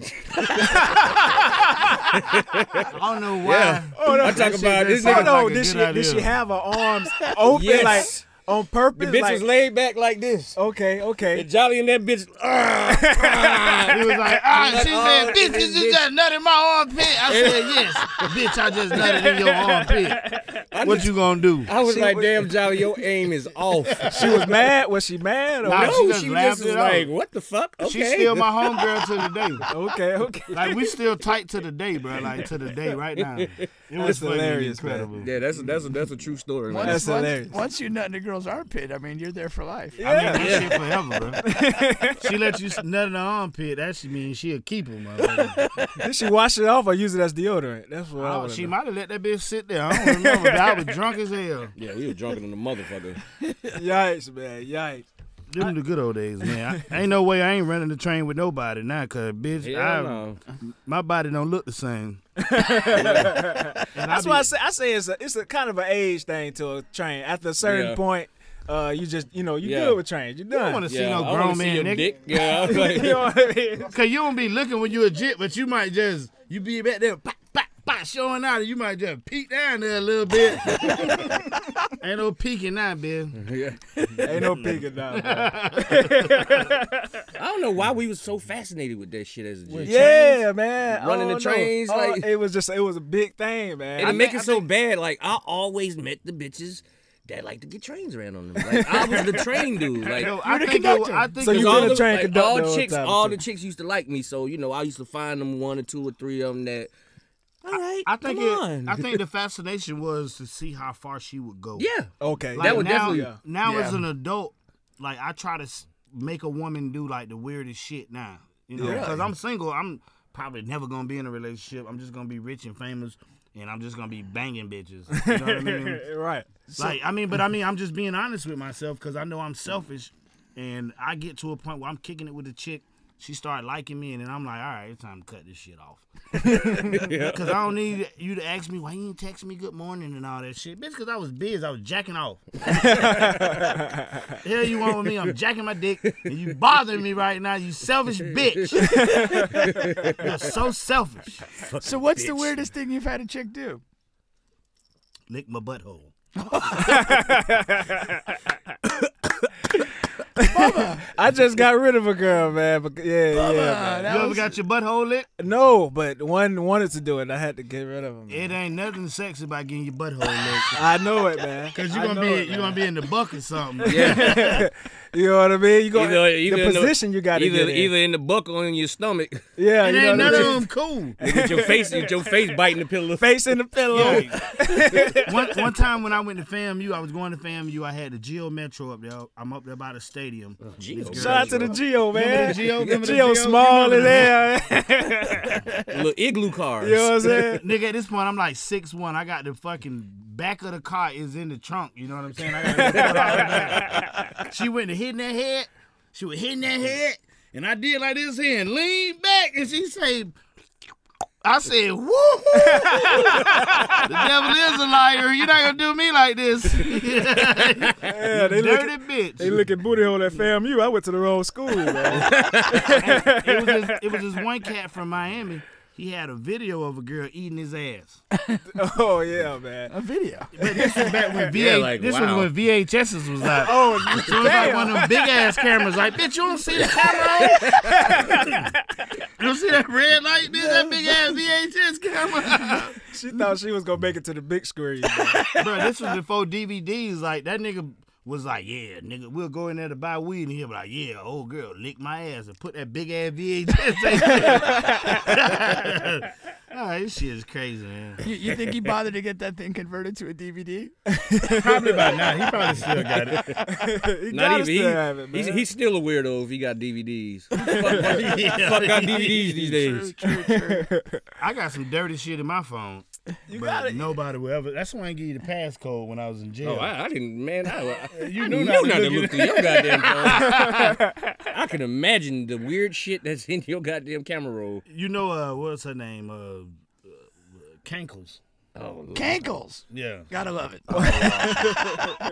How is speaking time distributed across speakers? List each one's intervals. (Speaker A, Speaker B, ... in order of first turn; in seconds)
Speaker A: 0.2-5.4, 7.5-8.3, 8.9-10.6, 11.3-16.1, 17.1-19.6, 20.6-24.4, 25.7-29.5, 33.1-33.7, 35.2-37.1, 40.3-40.8, 51.8-53.2, 59.6-60.4, 62.8-63.5, 67.6-68.0, 69.6-70.0, 70.9-73.2, 83.3-84.3, 87.4-90.2, 90.8-92.3, 94.0-100.4, 101.4-106.9, 107.6-109.2, 111.8-113.4, 118.8-119.2, 136.7-137.6, 146.1-146.4, 148.4-150.4, 151.6-152.6, 173.9-174.6, 175.9-179.5, 180.1-180.6, 181.2-183.3, 183.9-184.2, 190.6-191.8, 195.9-197.1, 202.8-203.9, 222.1-222.9, 231.5-232.5, 263.0-263.6, 264.3-270.2, 276.6-280.7, 281.5-284.8, 288.8-289.6
Speaker B: 2.9-6.4, 13.9-20.3, 20.8-21.7, 23.9-24.5, 25.6-27.1, 27.8-29.7, 30.5-35.4, 40.0-45.7, 48.2-51.7, 55.5-62.2, 62.9-63.3, 63.9-64.5, 70.5-72.3, 73.8-83.4, 84.2-86.6, 89.7-90.3, 94.0-94.7, 100.2-102.2, 108.0-111.9, 112.5-126.0, 126.8-143.4, 144.4-151.7, 155.3-156.1, 164.1-165.3, 168.3-170.9, 171.7-174.7, 179.8-181.2, 183.9-194.4, 197.2-210.4, 211.4-219.7, 222.8-228.2, 230.6-238.6, 239.4-243.0, 245.6-258.2, 261.5-263.6, 267.8-269.7, 271.4-276.9, 278.1-281.0, 284.9-288.4, 289.9-290.3, 290.9-291.7
Speaker C: 4.0-9.4, 10.6-11.5, 12.9-14.0, 19.0-20.5, 21.8-22.8, 24.1-26.0, 29.7-30.9, 34.0-35.1, 36.8-37.5, 40.0-40.8, 41.4-42.4, 46.0-48.8, 49.9-51.0, 53.7-55.1, 56.5-56.9, 62.4-70.8, 72.4-74.0, 84.2-87.1, 89.8-94.2, 98.6-99.6, 101.4-103.4, 112.2-113.4, 118.8-119.1, 125.1-127.0, 142.8-143.7, 149.0-149.6, 156.8-158.1, 160.4-164.1, 165.4-168.5, 170.7-172.9, 173.9-177.9, 179.6-182.4, 183.2-185.6, 191.2-195.7, 196.8-197.7, 203.1-203.9, 212.6-214.2, 218.0-224.3, 228.7-229.9, 230.7-231.5, 233.6-235.5, 237.8-239.1, 243.1-245.5, 254.4-255.2, 261.1-262.3, 263.7-265.7, 267.6-267.9, 270.3-271.2, 273.5-274.2, 280.7-281.0, 290.9-292.1
Speaker D: 36.7-40.0, 100.3-101.3, 113.6-114.0, 151.8-153.8, 156.4-157.3, 160.4-161.1, 163.3-164.5, 228.4-228.6, 229.9-230.5, 258.2-260.9, 269.6-270.9, 289.1-291.7